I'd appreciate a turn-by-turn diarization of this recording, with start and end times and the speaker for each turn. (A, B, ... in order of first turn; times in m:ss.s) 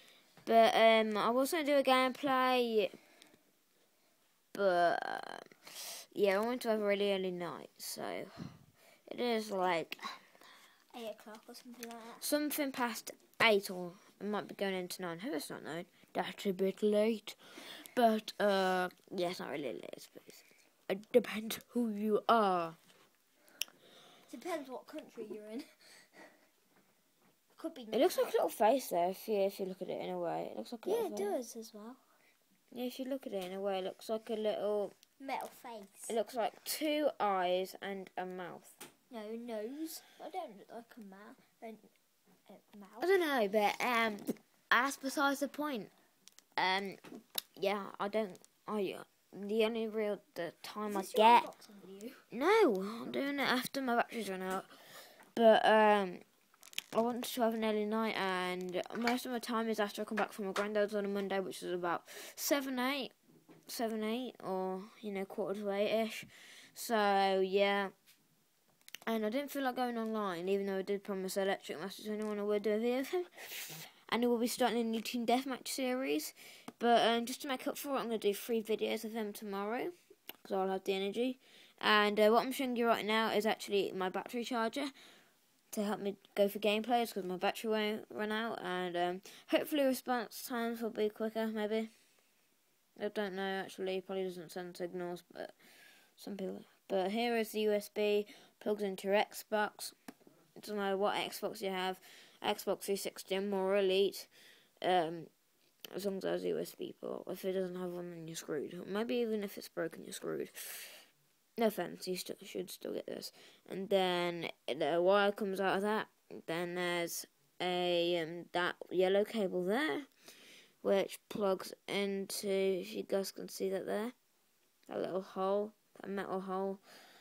0:00.4-0:02.9 A
0:04.5-0:05.5 A
0:06.1-0:08.3 A
0:09.1-0:10.0 A
0:10.9-0:12.2 B
0:12.2-0:17.4 A
0:17.9-0:22.8 A
0:24.3-0:26.2 B
0:27.5-0:28.3 B
0:27.9-0:31.4 A
0:30.8-0:32.0 B
0:32.7-0:34.9 A
0:35.2-0:36.1 B
0:36.1-0:38.7 A
0:39.1-0:41.9 B
0:42.5-0:43.1 B
0:43.0-0:45.9 A
0:46.6-0:47.0 A
0:47.6-0:51.5 A
0:50.8-0:52.2 B
0:52.3-0:54.7 A
0:55.3-0:56.2 A
0:56.9-1:03.1 A
1:03.7-1:07.9 A
1:09.1-1:24.9 A
1:25.7-1:31.9 A
1:33.0-1:35.6 A
1:36.2-1:39.9 A
1:40.6-1:44.3 A
1:44.8-1:45.3 A
1:45.9-1:51.0 A
1:51.6-2:00.1 A
2:00.8-2:04.1 A
2:04.9-2:06.8 A